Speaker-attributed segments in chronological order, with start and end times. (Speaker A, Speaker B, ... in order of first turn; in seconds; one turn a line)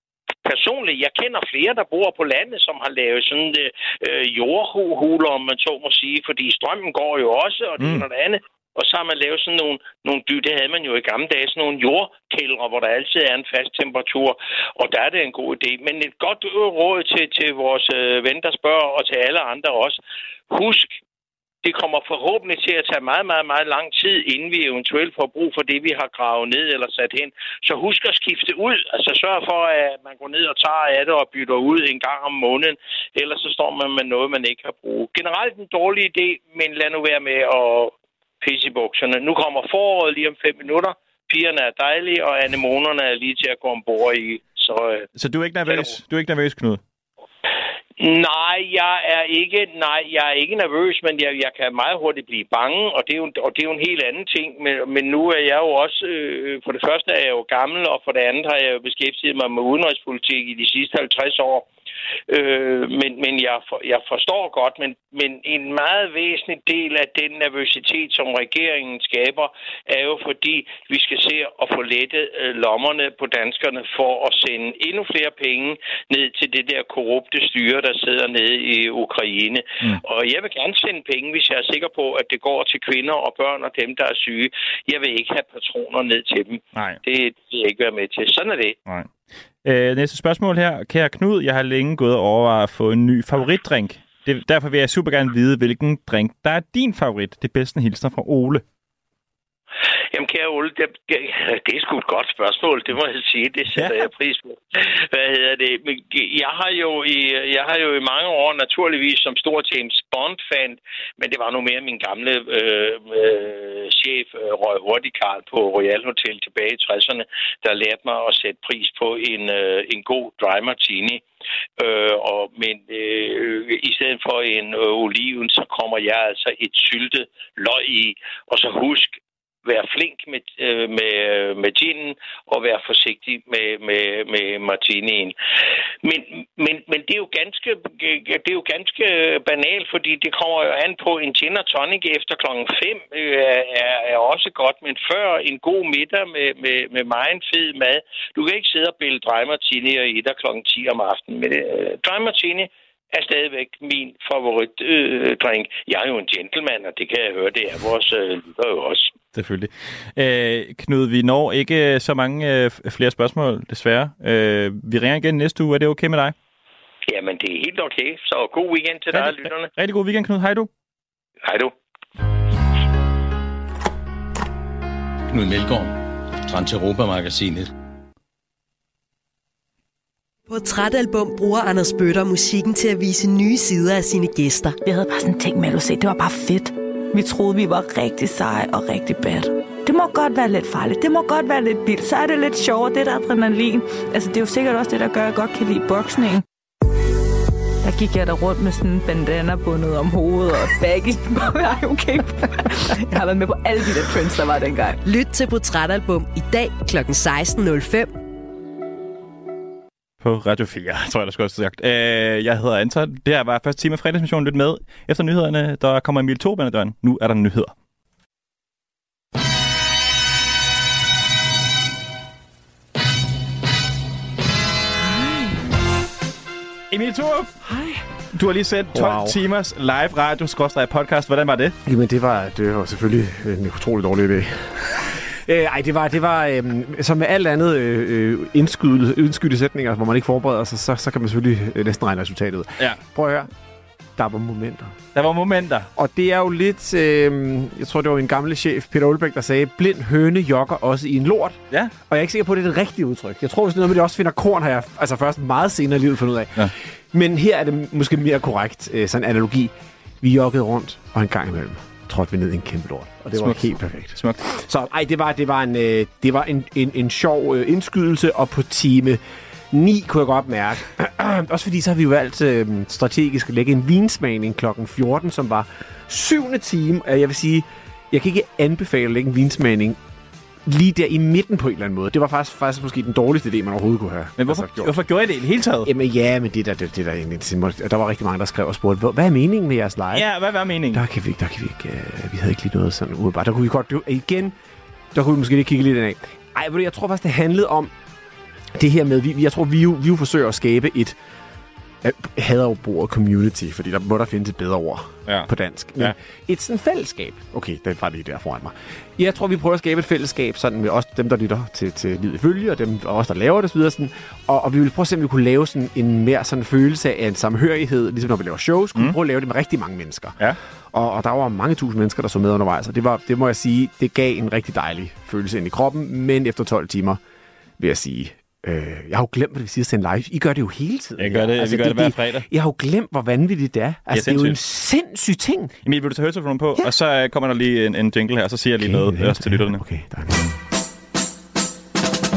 Speaker A: 0.4-20.0
Speaker B: 7.8-8.1
Speaker A: 20.5-20.9
Speaker A: 21.6-45.0
Speaker B: 45.1-46.8
Speaker A: 48.0-61.7
Speaker A: 62.3-88.8
Speaker B: 86.7-87.0
Speaker B: 89.6-98.6
Speaker A: 100.1-121.2
Speaker B: 103.7-104.1
Speaker A: 121.8-135.3
Speaker A: 136.0-159.1
Speaker B: 159.3-166.3
Speaker A: 167.1-169.7
Speaker B: 169.1-170.7
Speaker A: 171.4-171.7
Speaker C: 175.3-175.9
Speaker C: 176.5-177.7
Speaker D: 180.5-184.8
Speaker E: 184.8-196.4
Speaker E: 197.8-205.0
Speaker D: 205.0-208.1
Speaker B: 210.2-217.7
Speaker B: 226.9-227.6
Speaker F: 227.6-228.0
Speaker B: 228.3-231.7
Speaker F: 228.9-229.4
Speaker F: 231.8-243.5
Speaker F: 244.2-244.9
Speaker B: 245.1-245.9
Speaker F: 245.9-251.6
Speaker F: 252.1-269.2
Speaker B: 263.3-264.4
Speaker F: 269.7-280.0
Speaker F: 280.7-285.0
Speaker B: 284.4-285.9
Speaker F: 285.8-290.3
Speaker B: 290.1-291.0
Speaker F: 290.9-294.5
Speaker F: 295.1-297.9
Speaker F: 298.8-301.2
Speaker F: 302.0-320.4
Speaker B: 305.3-306.1
Speaker F: 320.9-327.2
Speaker F: 327.8-335.7
Speaker B: 331.2-332.5
Speaker B: 334.1-334.6
Speaker B: 335.8-339.8
Speaker F: 338.8-340.5